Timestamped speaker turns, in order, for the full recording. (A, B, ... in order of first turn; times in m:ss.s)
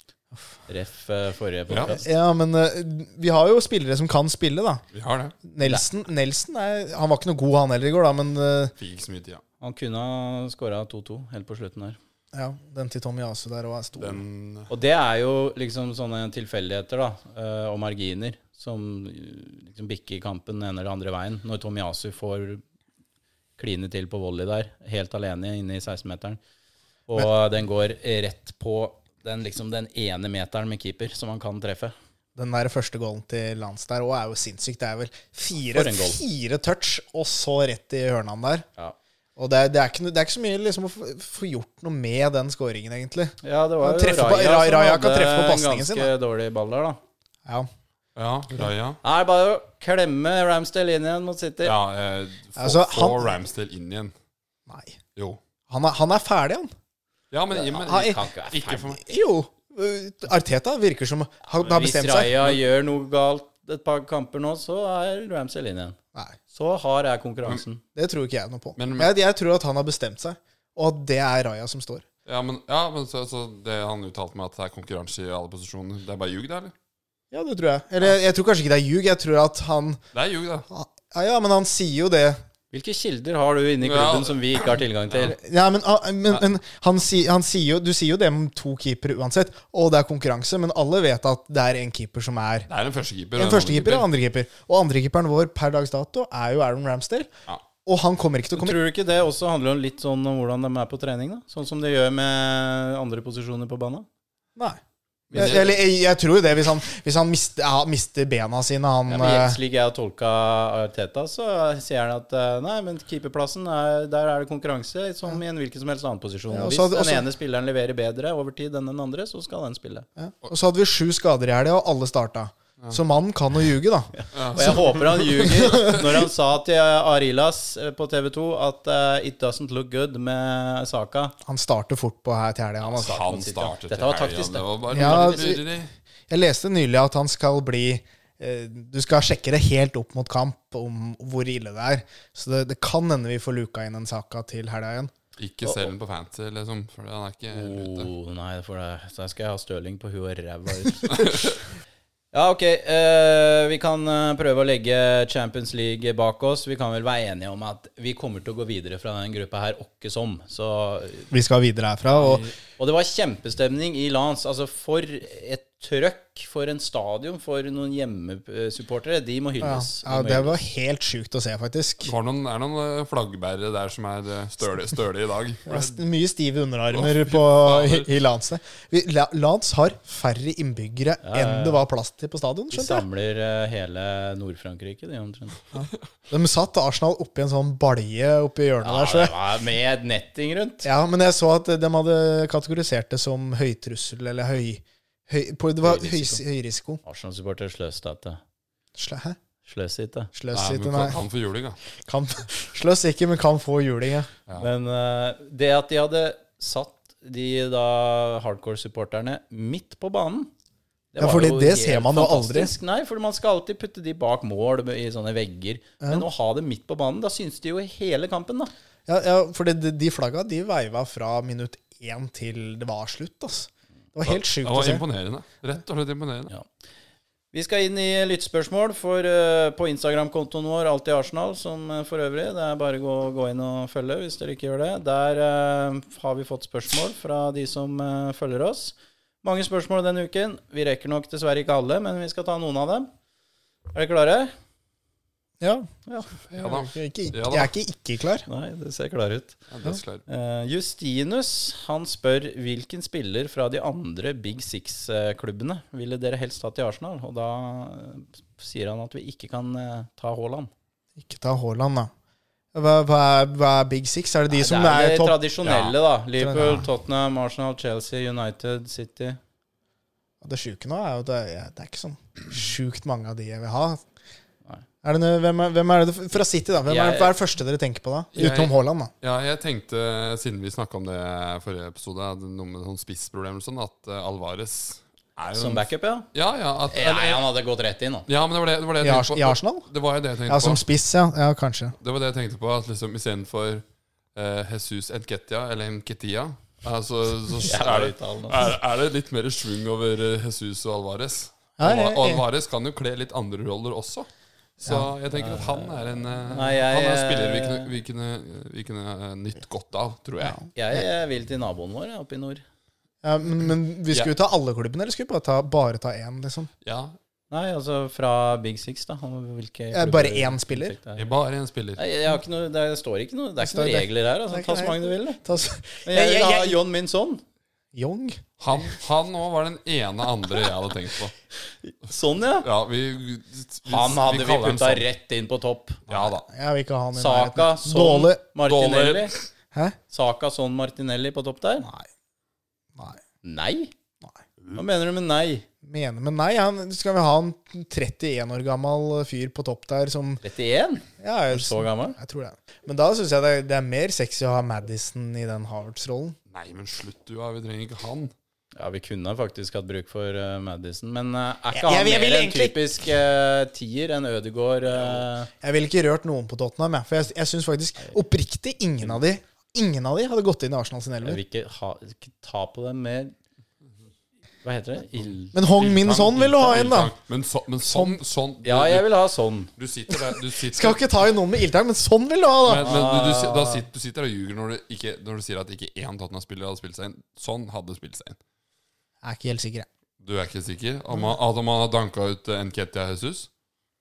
0:00.7-0:02.0 A
0:01.7-0:02.0 B
0:01.8-0:04.8 C
0:04.9-0:05.4 B
0:05.4-0:08.7 C
0:08.8-0:09.4 B
0:09.6-0:12.0 A
0:12.3-0:14.2 C
0:14.0-0:14.7 B
0:14.7-0:22.6 A
0:23.6-0:26.4 A
0:27.1-0:31.9 A
0:32.4-0:38.6 C
0:35.7-0:36.2 A
0:39.4-0:46.1 C
0:43.4-0:47.0 A
0:48.2-0:49.0 B
0:49.0-0:51.8 A
0:51.6-0:54.1 B
0:52.6-0:53.4 C
0:54.7-0:55.0 C
0:55.7-0:56.7 C
0:57.3-0:59.0 B
0:57.5-0:59.0 A
0:59.0-1:02.3 C
1:01.6-1:06.0 A
1:06.5-1:07.8 A
1:07.9-1:12.0 C
1:08.8-1:09.1 B
1:12.2-1:16.7 B
1:17.3-1:20.0 C
1:20.1-1:20.6 B
1:20.7-1:22.4 C
1:22.7-1:25.4 A
1:23.8-1:25.4 B
1:25.2-1:32.7 C
1:32.7-1:34.1 B
1:33.4-1:37.3 C
1:37.8-1:38.8 C
1:38.6-1:44.1 A
1:45.3-1:45.8 B
1:45.3-1:49.6 C
1:49.1-2:00.0 A
1:56.5-1:57.2 C
2:00.2-2:04.8 C
2:04.2-2:11.3 A
2:04.3-2:05.9 B
2:05.4-2:06.0 C
2:11.4-2:13.4 C
2:12.9-2:15.9 B
2:13.1-2:15.4 A
2:14.9-2:15.6 C
2:16.3-2:25.1 C
2:25.4-2:28.1 B
2:27.5-2:31.2 A
2:31.1-2:31.6 B
2:32.3-2:41.3 A
2:41.3-2:42.5 C
2:42.2-2:42.5 B
2:42.8-2:50.6 A
2:49.6-2:52.1 C
2:52.0-2:56.0 B
2:55.6-3:03.0 C
2:56.9-2:58.1 B
3:01.2-3:01.8 A
3:02.7-3:05.6 A
3:05.7-3:09.3 C
3:08.8-3:10.9 A
3:10.8-3:17.0 C
3:15.8-3:16.4 A
3:17.0-3:18.4 A
3:19.0-3:19.4 C
3:19.6-3:20.3 A
3:20.3-3:21.2 C
3:20.5-3:21.8 B
3:22.0-3:24.3 C
3:24.6-3:30.5 A
3:31.1-3:38.7 A
3:31.2-3:32.7 C
3:39.1-3:45.0 C
3:44.2-3:46.5 B
3:47.5-4:03.1 A
4:03.9-4:04.5 A
4:05.6-4:05.9 C
4:06.5-4:07.7 B
4:06.5-4:08.4 C
4:08.5-4:09.6 A
4:09.7-4:10.2 B
4:10.3-4:20.7 A
4:21.2-4:22.1 C
4:22.7-4:25.4 C
4:24.5-4:29.4 A
4:25.6-4:25.9 B
4:26.4-4:26.9 C
4:30.4-4:34.0 C
4:35.0-4:39.1 C
4:36.9-4:37.3 A
4:38.3-4:47.4 B
4:45.5-4:46.3 A
4:46.9-4:48.2 A
4:48.3-4:50.8 B
4:49.0-4:49.9 C
4:50.4-4:51.9 C
4:52.0-5:04.3 B
4:57.6-4:58.6 A
5:01.8-5:02.4 C
5:04.8-5:10.6 B
5:05.4-5:05.9 A
5:06.5-5:07.9 A
5:10.4-5:11.0 C
5:10.7-5:12.6 A
5:13.2-5:16.7 C
5:16.8-5:17.2 B
5:17.5-5:21.2 A
5:19.9-5:21.0 C
5:21.2-5:22.0 B
5:22.0-5:25.4 A
5:23.6-5:26.8 C
5:26.0-5:27.4 A
5:27.9-5:28.4 C
5:28.6-5:31.3 B
5:31.8-5:32.6 A
5:32.6-5:35.0 B
5:33.8-5:36.0 A
5:36.1-5:36.4 B
5:36.1-5:38.4 C
5:37.2-5:39.3 A
5:38.6-5:39.4 B
5:40.1-5:41.9 A
5:41.8-5:42.1 C
5:42.9-5:43.2 C
5:43.4-5:43.9 A
5:44.7-5:45.6 A
5:45.8-5:50.4 C
5:50.4-5:52.2 A
5:51.2-5:56.4 C
5:56.5-5:58.3 B
5:58.8-6:05.5 A
6:01.7-6:02.9 C
6:05.6-6:11.4 C
6:11.2-6:13.3 A
6:14.6-6:15.6 A
6:15.5-6:17.1 C
6:15.8-6:19.1 B
6:17.8-6:18.2 C
6:18.6-6:19.7 A
6:19.8-6:21.0 B
6:20.7-6:23.0 C
6:22.6-6:28.4 B
6:22.8-6:23.8 A
6:29.2-6:29.9 C
6:30.2-6:33.5 B